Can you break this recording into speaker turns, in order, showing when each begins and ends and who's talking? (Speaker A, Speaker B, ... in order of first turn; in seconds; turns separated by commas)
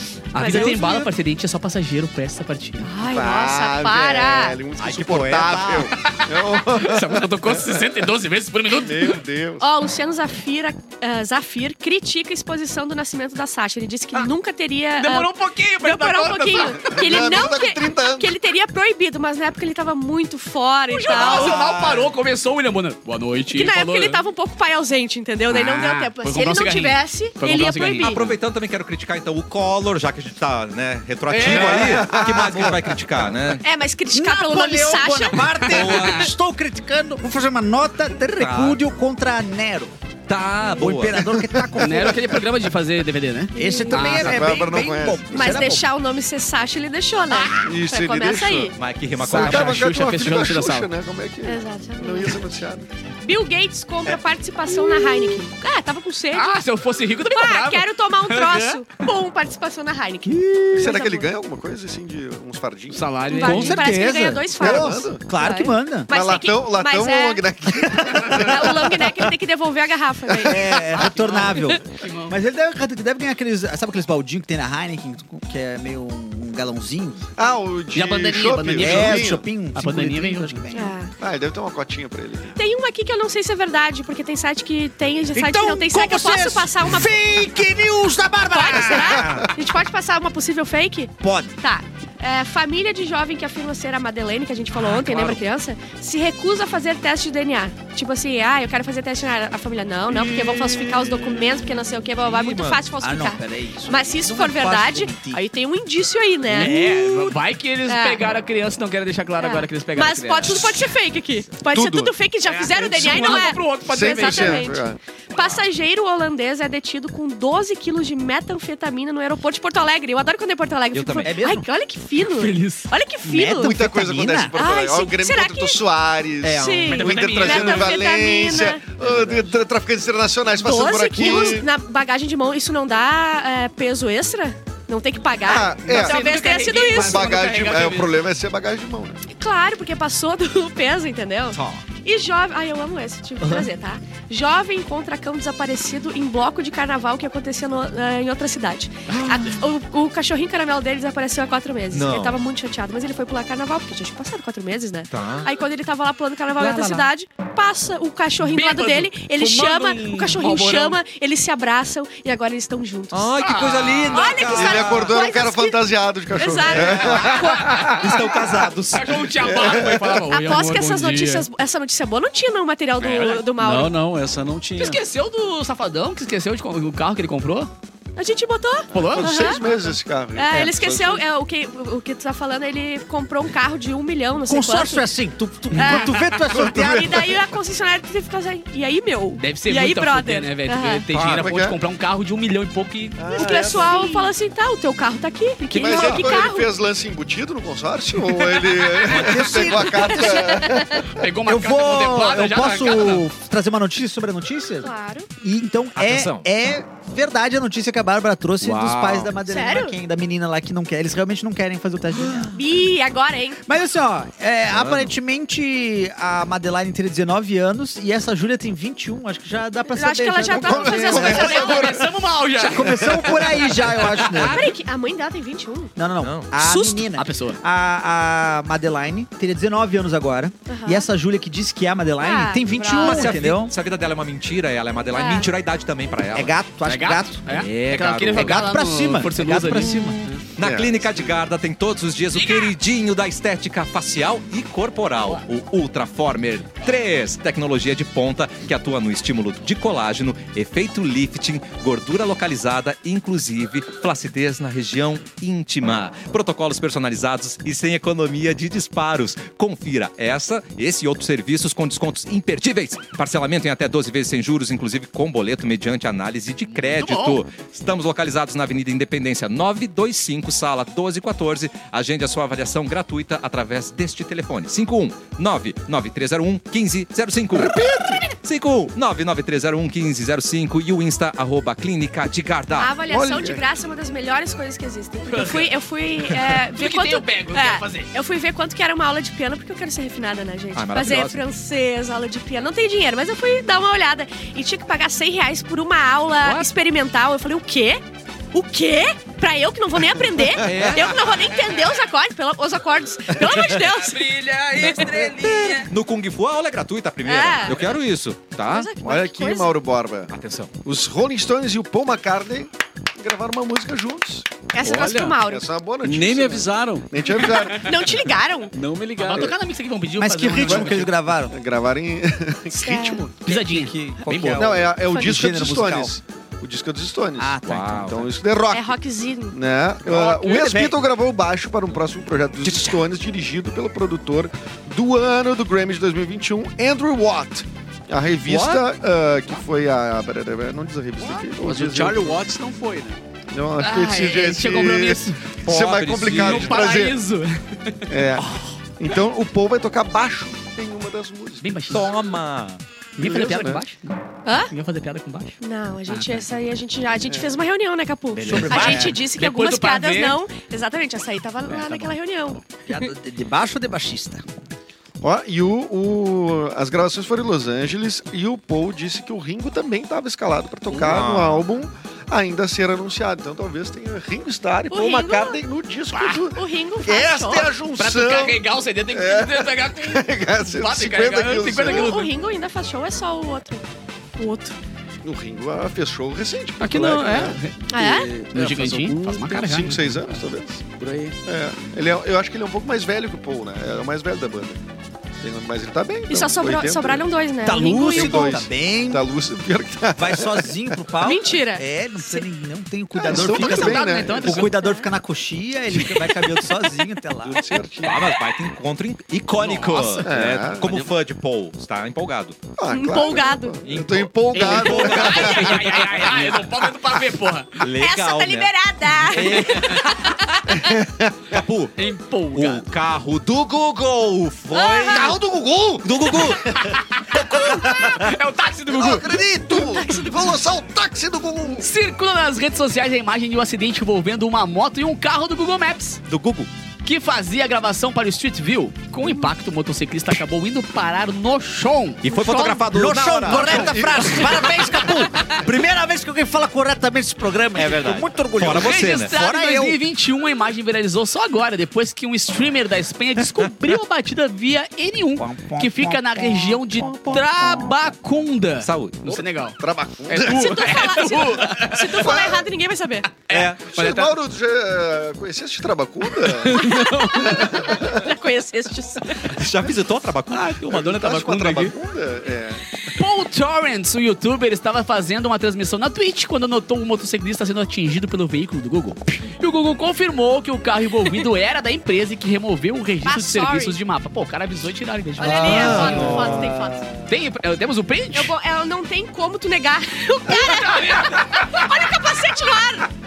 Speaker A: 0.3-2.9, Speaker B: 0.4-1.1, Speaker B: 2.8-4.6, Speaker C: 3.0-7.9, Speaker D: 4.8-5.9, Speaker A: 6.0-9.2, Speaker C: 8.7-9.6, Speaker B: 9.6-21.7, Speaker A: 15.0-17.1, Speaker C: 16.8-18.3, Speaker A: 20.9-24.2, Speaker D: 21.1-22.1, Speaker B: 23.5-28.3, Speaker A: 25.5-28.3, Speaker D: 28.0-33.6, Speaker A: 31.3-31.9, Speaker C: 31.4-32.8, Speaker E: 31.4-32.8, Speaker B: 33.6-36.0, Speaker E: 34.1-40.0, Speaker D: 35.6-36.3, Speaker A: 35.7-36.2, Speaker D: 38.4-38.8, Speaker D: 40.3-41.3, Speaker E: 40.7-42.4, Speaker C: 41.3-42.3, Speaker A: 41.8-44.4, Speaker E: 43.5-45.8, Speaker B: 43.5-44.1, Speaker C: 44.1-45.6, Speaker B: 45.3-48.8, Speaker C: 47.6-48.7, Speaker D: 48.8-49.9, Speaker A: 49.2-50.9, Speaker C: 49.3-52.9, Speaker B: 51.4-52.4, Speaker B: 53.2-56.5, Speaker A: 56.3-58.8, Speaker B: 57.3-61.3, Speaker E: 60.2-61.0, Speaker C: 60.8-63.1, Speaker A: 62.9-63.8, Speaker B: 63.3-67.5, Speaker E: 63.4-66.1, Speaker C: 64.5-65.2, Speaker C: 66.1-69.0, Speaker E: 67.9-68.7, Speaker B: 68.3-70.8, Speaker E: 70.4-77.2, Speaker A: 70.9-72.3, Speaker C: 77.4-79.4, Speaker A: 77.9-80.6, Speaker E: 78.8-81.0, Speaker B: 80.7-81.1, Speaker C: 81.2-82.6, Speaker B: 82.5-87.1, Speaker E: 85.3-89.5, Speaker B: 88.5-106.8, Speaker E: 91.2-91.5, Speaker D: 94.9-95.4, Speaker D: 102.2-102.8, Speaker E: 103.0-105.4, Speaker A: 106.5-110.7, Speaker E: 106.5-107.3, Speaker B: 107.8-108.2, Speaker B: 109.4-123.7, Speaker C: 111.6-112.1, Speaker A: 112.5-114.8, Speaker C: 113.3-115.0, Speaker D: 120.9-121.4, Speaker E: 121.2-121.7, Speaker A: 122.2-122.9, Speaker E: 123.2-124.6, Speaker C: 123.6-131.7, Speaker B: 124.5-125.8, Speaker B: 126.5-128.9, Speaker A: 126.9-128.0, Speaker B: 130.5-137.4, Speaker C: 135.4-136.2, Speaker A: 135.8-138.1, Speaker C: 136.9-139.2, Speaker B: 139.3-163.4, Speaker D: 141.5-141.8, Speaker D: 149.1-149.4, Speaker D: 151.9-152.4, Speaker D: 155.1-155.5, Speaker D: 156.6-157.1, Speaker A: 158.4-161.0, Speaker D: 163.1-165.1, Speaker A: 163.4-164.2, Speaker B: 164.1-165.8, Speaker C: 164.5-167.6, Speaker B: 166.3-168.3, Speaker D: 167.1-169.2, Speaker A: 167.7-167.9, Speaker A: 168.9-171.5, Speaker C: 169.3-170.2, Speaker B: 170.3-173.9, Speaker A: 173.0-173.4, Speaker F: 173.6-175.0, Speaker A: 174.8-177.7, Speaker B: 178.2-179.7, Speaker A: 178.9-179.5, Speaker C: 178.9-181.2, Speaker B: 180.3-185.1, Speaker E: 184.4-187.3, Speaker A: 185.7-186.2, Speaker B: 185.7-191.1, Speaker C: 186.5-187.2, Speaker A: 189.4-193.9, Speaker D: 191.1-191.4, Speaker C: 191.2-191.8, Speaker C: 193.2-194.1, Speaker B: 193.3-196.7, Speaker A: 195.7-196.5, Speaker C: 195.7-201.1, Speaker E: 199.0-200.7, Speaker B: 200.1-201.0, Speaker A: 201.0-203.2, Speaker E: 201.4-212.6, Speaker B: 204.8-205.3, Speaker D: 205.9-206.4, Speaker D: 208.6-209.3, Speaker B: 209.4-209.9, Speaker B: 212.5-213.6, Speaker E: 213.7-221.7, Speaker D: 214.7-215.1, Speaker B: 219.9-222.0, Speaker C: 220.5-222.1, Speaker A: 221.1-224.1, Speaker E: 222.6-224.7, Speaker C: 222.9-223.4, Speaker D: 224.2-224.5, Speaker B: 224.3-225.9, Speaker E: 225.9-233.7, Speaker D: 226.2-226.5, Speaker B: 226.6-227.0, Speaker A: 227.1-227.6, Speaker B: 230.7-231.1, Speaker B: 232.2-233.4, Speaker D: 232.9-236.5, Speaker B: 235.1-235.5, Speaker E: 236.3-237.4, Speaker A: 236.8-240.4, Speaker D: 237.5-238.6, Speaker E: 238.3-240.2, Speaker D: 239.9-282.9, Speaker C: 240.6-241.3, Speaker A: 242.3-242.7, Speaker A: 266.7-267.4, Speaker C: 277.5-278.2, Speaker B: 282.7-298.0, Speaker C: 283.1-283.6, Speaker A: 285.2-285.7, Speaker A: 286.7-288.1, Speaker D: 290.7-291.4, Speaker B: 298.5-305.3, Speaker D: 300.6-301.3, Speaker A: 303.4-305.9, Speaker D: 305.4-308.9, Speaker B: 307.2-308.0, Speaker B: 308.6-309.7, Speaker C: 309.0-310.3, Speaker D: 310.3-310.7, Speaker C: 310.8-314.6, Speaker B: 314.7-315.6, Speaker F: 314.8-315.4, Speaker C: 315.4-318.0, Speaker F: 316.0-317.5, Speaker B: 317.4-318.7, Speaker F: 318.7-319.6, Speaker A: 319.2-321.1, Speaker E: 320.2-321.5, Speaker C: 320.6-323.3, Speaker B: 322.7-323.3, Speaker E: 323.3-326.2, Speaker A: 323.4-324.7, Speaker C: 324.5-328.9, Speaker E: 327.4-328.3, Speaker D: 327.6-328.2, Speaker B: 328.7-329.6, Speaker C: 329.5-342.4, Speaker A: 330.1-330.7, Speaker E: 330.1-330.9, Speaker D: 332.6-333.0, Speaker D: 338.4-338.8, Speaker F: 341.4-343.2, Speaker C: 343.5-347.2, Speaker A: 343.8-345.4, Speaker D: 345.6-346.9, Speaker A: 346.2-348.1, Speaker C: 348.1-351.8, Speaker A: 351.6-352.1, Speaker D: 351.9-352.8, Speaker A: 353.2-355.6, Speaker C: 353.2-353.8, Speaker B: 354.4-354.7, Speaker B: 355.6-362.6, Speaker A: 356.1-356.5, Speaker C: 357.3-357.5, Speaker E: 358.3-359.2, Speaker A: 358.5-360.4, Speaker A: 361.7-362.6, Speaker E: 362.9-364.4, Speaker C: 365.2-382.2, Speaker D: 371.0-371.6, Speaker B: 374.9-375.6, Speaker B: 376.5-377.7, Speaker A: 377.9-382.3, Speaker B: 381.8-383.8, Speaker B: 384.4-384.7, Speaker C: 385.2-387.6, Speaker A: 386.8-387.9, Speaker B: 387.9-388.3, Speaker F: 387.9-391.4, Speaker A: 388.5-390.0, Speaker C: 389.4-390.8, Speaker C: 391.4-394.8, Speaker C: 395.4-397.3, Speaker B: 396.3-398.6, Speaker E: 397.6-399.2, Speaker C: 398.1-401.0, Speaker E: 400.1-407.6, Speaker B: 401.2-402.4, Speaker C: 403.1-404.7, Speaker A: 403.3-404.8, Speaker B: 404.7-405.1, Speaker C: 407.4-408.4, Speaker D: 408.0-412.6, Speaker A: 409.5-410.3, Speaker C: 410.2-411.1, Speaker C: 412.8-416.5, Speaker B: 412.9-413.8, Speaker D: 413.8-416.6, Speaker A: 414.5-417.8, Speaker D: 417.8-420.3, Speaker B: 417.9-420.8, Speaker C: 420.7-421.6, Speaker D: 421.5-421.9, Speaker A: 422.0-422.9, Speaker D: 422.5-425.4, Speaker B: 424.7-425.4, Speaker C: 425.1-426.7, Speaker D: 426.0-426.7, Speaker A: 426.7-429.4, Speaker C: 427.3-428.1, Speaker C: 428.9-431.9, Speaker B: 429.7-430.5, Speaker A: 431.8-436.2, Speaker D: 436.3-436.7, Speaker A: 437.0-442.9, Speaker B: 439.2-439.5, Speaker D: 442.2-444.4, Speaker E: 442.9-450.0, Speaker C: 443.5-445.0, Speaker D: 447.8-449.3, Speaker A: 448.7-462.3, Speaker E: 455.4-458.1, Speaker D: 458.8-459.4, Speaker C: 459.8-460.9, Speaker B: 460.4-463.3, Speaker C: 462.1-462.6, Speaker A: 463.3-464.3, Speaker C: 463.6-468.3, Speaker A: 466.7-467.6, Speaker B: 466.7-469.6, Speaker D: 469.4-470.7, Speaker A: 470.5-471.9, Speaker C: 470.8-472.8, Speaker A: 473.1-486.2, Speaker B: 483.2-484.0, Speaker B: 485.4-487.1, Speaker E: 485.4-487.1, Speaker D: 485.6-486.6, Speaker A: 487.2-488.5, Speaker B: 488.3-493.1, Speaker A: 490.5-491.9